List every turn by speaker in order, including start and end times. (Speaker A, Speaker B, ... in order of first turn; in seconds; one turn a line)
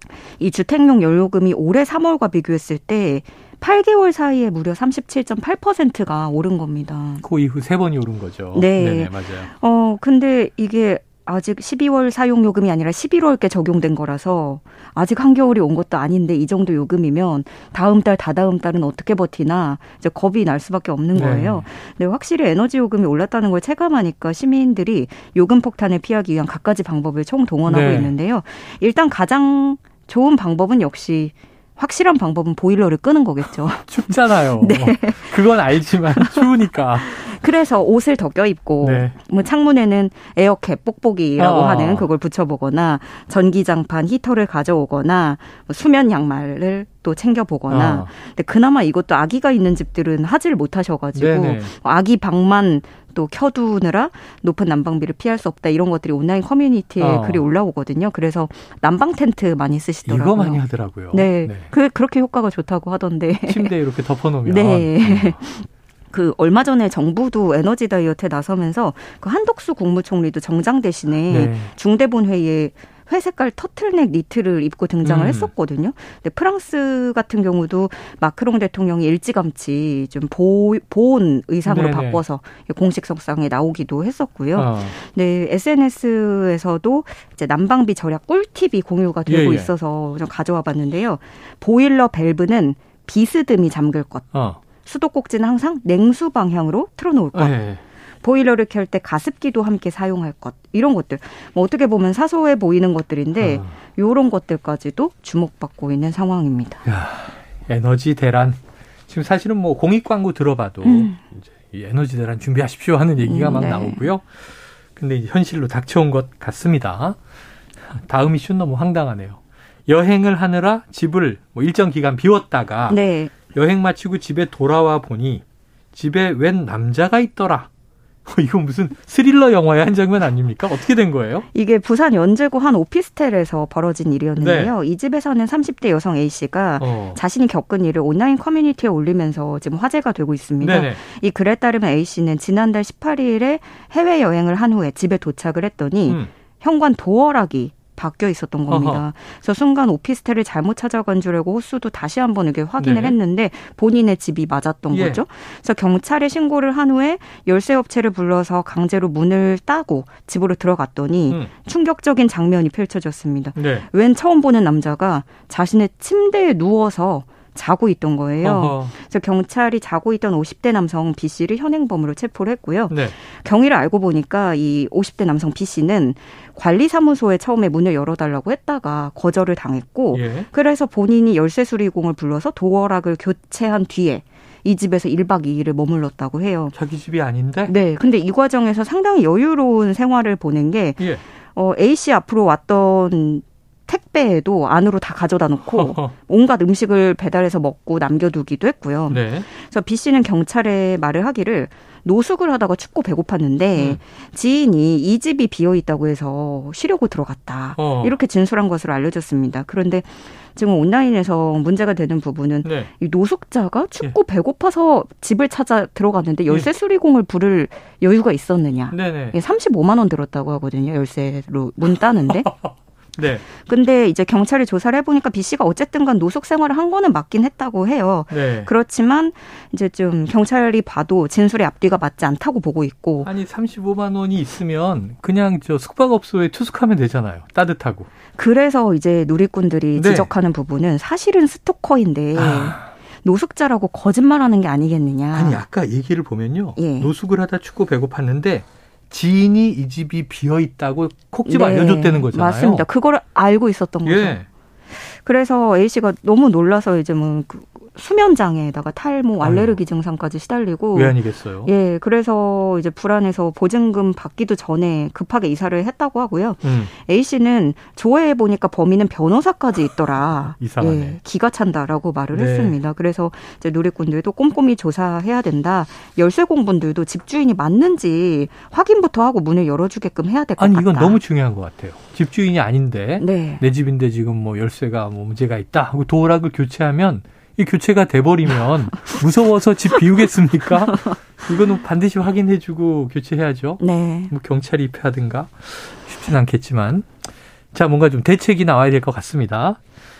Speaker A: 0.3-7.2
Speaker B: 7.2-9.5
Speaker A: 8.5-35.5
Speaker B: 21.1-21.7
Speaker B: 27.6-28.1
Speaker B: 33.9-37.1
Speaker A: 36.1-63.7
Speaker B: 38.8-39.1
Speaker B: 41.4-42.1
Speaker B: 47.7-48.1
Speaker B: 51.1-51.7
Speaker B: 57.0-57.5
Speaker B: 60.0-61.7
Speaker B: 63.5-65.4
Speaker A: 64.4-94.3
Speaker B: 71.3-71.7
Speaker B: 75.0-75.5
Speaker B: 81.7-82.2
Speaker B: 84.5-84.9
Speaker B: 89.3-89.7
Speaker B: 94.3-94.6
Speaker A: 94.8-97.6
Speaker B: 97.3-97.8
Speaker A: 98.2-106.8
Speaker B: 103.4-103.7
Speaker B: 106.8-108.6
Speaker B: 109.1-117.2
Speaker A: 110.8-111.2
Speaker A: 113.2-114.1
Speaker B: 117.9-123.0
Speaker A: 122.9-123.3
Speaker B: 123.5-127.7
Speaker B: 128.2-131.4
Speaker A: 131.5-186.7
Speaker B: 134.4-134.7
Speaker B: 136.8-137.2
Speaker B: 140.6-141.0
Speaker B: 148.7-149.0
Speaker B: 152.8-153.2
Speaker B: 154.9-155.2
Speaker B: 163.6-163.8
Speaker B: 168.4-168.9
Speaker B: 172.9-173.2
Speaker B: 180.1-180.5
Speaker B: 186.7-187.7
Speaker A: 187.7-222.5
Speaker B: 195.6-196.1
Speaker B: 199.1-199.5
Speaker B: 207.8-208.2
Speaker B: 212.6-212.9
Speaker B: 218.9-219.4
Speaker B: 222.4-223.4
Speaker A: 223.5-233.3
Speaker B: 228.3-228.7
Speaker B: 233.2-238.1
Speaker A: 238.3-245.6
Speaker B: 239.9-240.3
Speaker B: 242.3-242.8
Speaker B: 245.3-252.8
Speaker A: 246.8-247.1
Speaker A: 251.4-254.4
Speaker B: 254.0-254.5
Speaker A: 254.9-281.2
Speaker B: 259.4-259.8
Speaker B: 260.9-261.7
Speaker B: 266.6-266.9
Speaker B: 270.6-271.2
Speaker B: 272.3-272.8
Speaker B: 280.6-297.1
Speaker A: 283.2-283.6
Speaker A: 290.9-291.1
Speaker A: 293.8-294.3
Speaker B: 297.7-299.8